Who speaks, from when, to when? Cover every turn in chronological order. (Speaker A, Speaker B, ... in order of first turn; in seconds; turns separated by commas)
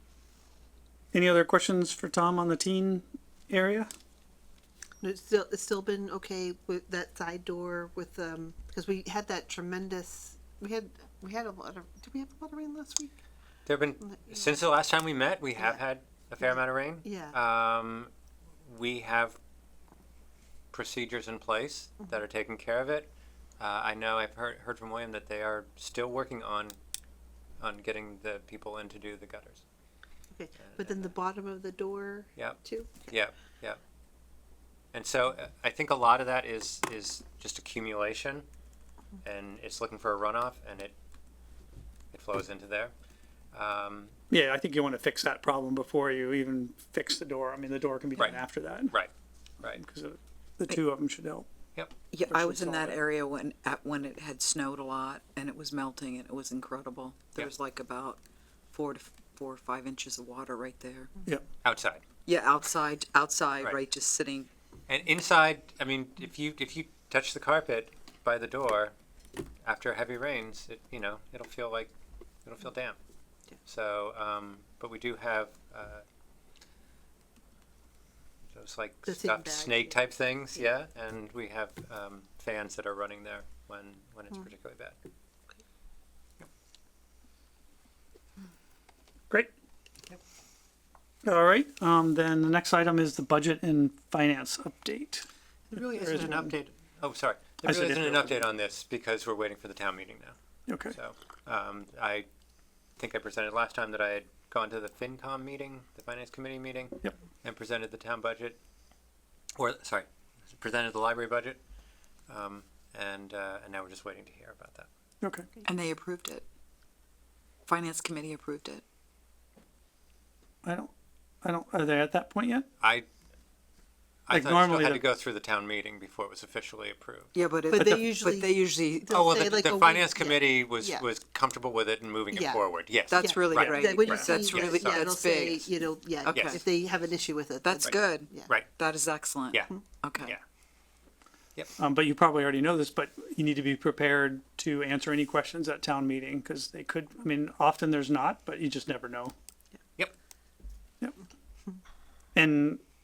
Speaker A: 1.1-3.9, Speaker B: 5.0-13.2, Speaker C: 13.7-18.1, Speaker B: 14.0-14.5, Speaker B: 17.0-17.4, Speaker C: 18.7-19.4, Speaker C: 20.7-26.8, Speaker C: 27.6-29.6, Speaker B: 30.3-33.1, Speaker C: 30.6-31.1, Speaker C: 32.4-33.8, Speaker C: 34.9-38.5, Speaker C: 39.2-41.0, Speaker C: 42.1-42.9, Speaker C: 43.5-44.1, Speaker A: 44.3-49.0, Speaker C: 48.2-49.8, Speaker A: 49.7-51.5, Speaker D: 52.1-61.1, Speaker A: 52.3-53.0, Speaker C: 61.6-62.0, Speaker D: 62.3-64.5, Speaker C: 64.9-68.9, Speaker C: 69.6-71.9, Speaker C: 72.5-73.0, Speaker C: 73.7-76.0, Speaker C: 78.5-85.0, Speaker B: 79.1-80.0, Speaker A: 91.2-95.3, Speaker C: 95.7-100.4, Speaker A: 96.0-96.5, Speaker A: 97.7-98.4, Speaker A: 100.7-101.0, Speaker C: 100.9-102.3, Speaker C: 103.0-108.6, Speaker C: 109.6-111.6, Speaker C: 112.3-114.9, Speaker A: 115.2-115.5, Speaker D: 115.6-116.5, Speaker D: 117.7-118.8, Speaker A: 120.6-120.9, Speaker A: 121.4-122.7, Speaker C: 122.8-123.1, Speaker C: 124.3-127.3, Speaker A: 124.3-125.0, Speaker D: 127.3-129.2, Speaker B: 127.7-131.1, Speaker C: 129.1-135.1, Speaker B: 132.3-132.6, Speaker D: 133.1-136.6, Speaker B: 133.1-138.5, Speaker C: 136.3-136.6, Speaker D: 137.6-140.4, Speaker C: 137.8-138.7, Speaker C: 139.5-140.4, Speaker A: 141.8-149.3, Speaker A: 152.3-152.8